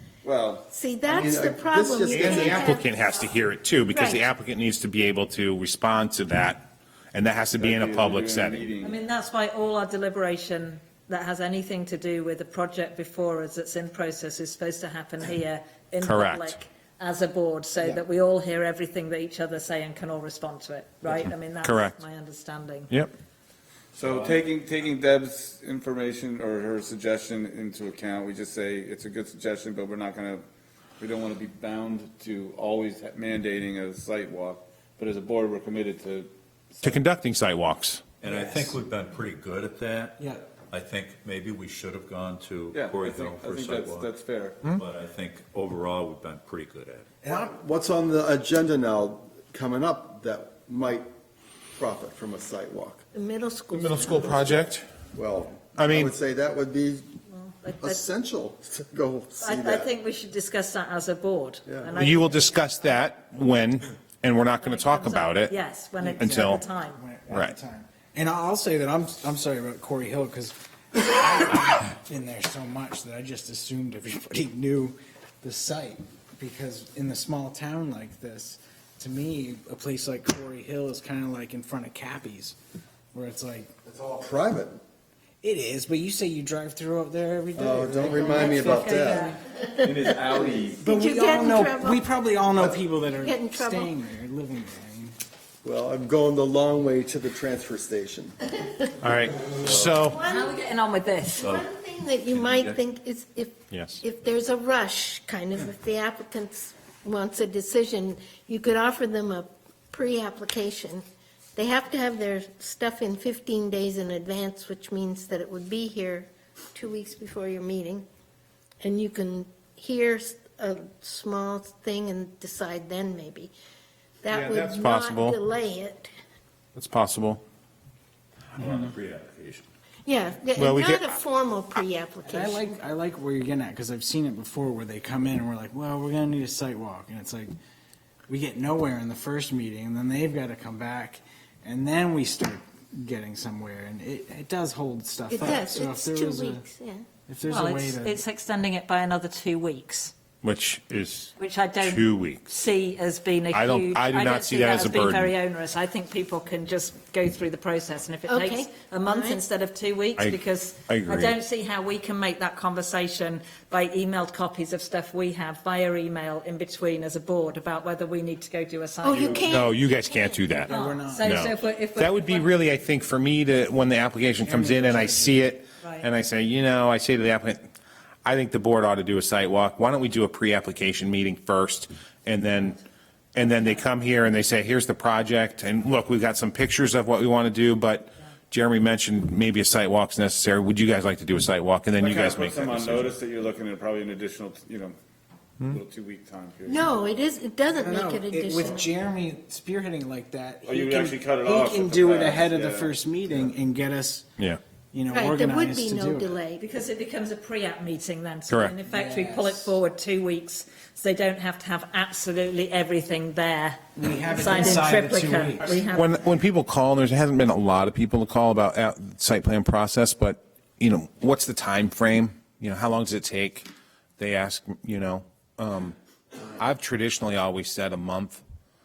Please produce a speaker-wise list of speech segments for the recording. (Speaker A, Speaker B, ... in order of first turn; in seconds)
Speaker A: 0.2-0.7, 7.6-9.0, 24.0-30.4, 31.0-37.0, 42.7-44.6, 192.0-194.9, 195.6-197.0, 200.6-203.6
Speaker B: 0.7-3.3, 3.9-4.2, 53.1-54.4, 89.0-92.0, 93.1-93.9, 100.1-100.5, 101.4-111.0, 111.6-118.1, 118.8-123.5, 124.2-126.1, 130.1-132.8, 145.3-147.2, 158.3-159.4, 169.0-170.7, 196.7-198.9, 205.1-206.6
Speaker C: 1.1-2.7, 47.3-51.1, 51.8-53.0, 55.1-57.1, 57.8-59.9, 61.7-62.0, 83.9-84.8, 87.5-89.3, 92.5-92.9, 95.6-98.4
Speaker D: 2.1-8.7, 16.0-16.6, 21.6-22.0, 36.8-38.0, 53.7-54.9, 55.8-56.1, 62.0-65.5, 66.2-66.6, 67.3-67.5, 99.0-100.2, 103.7-104.0, 124.3-125.4, 126.8-127.4, 130.6-131.1, 150.4-152.4, 153.5-155.3, 160.2-161.3, 169.4-170.7, 171.2-177.6, 178.2-182.8, 183.3-193.1, 208.5-208.8, 215.9-223.7, 224.2-225.9, 226.6-228.4
Speaker E: 8.8-22.9, 57.3-58.0, 59.4-62.6, 64.6-67.0, 88.2-89.4, 100.2-101.5, 147.4-150.1, 151.4-169.5, 170.7-172.5, 175.8-176.1, 206.6-216.1
Speaker F: 24.1-24.4, 38.2-44.1, 44.6-47.1, 89.6-90.9, 99.6-100.0, 101.4-101.7, 102.3-102.8, 128.5-129.7
Speaker G: 38.4-38.7, 66.0-66.4, 67.0-82.6, 83.1-83.7, 85.4-89.4, 90.9-95.2, 132.3-137.5, 138.3-146.6, 147.3-148.2, 170.7-171.2, 174.4-175.5, 197.8-204.3, 204.9-206.3, 208.8-209.7, 214.0-215.8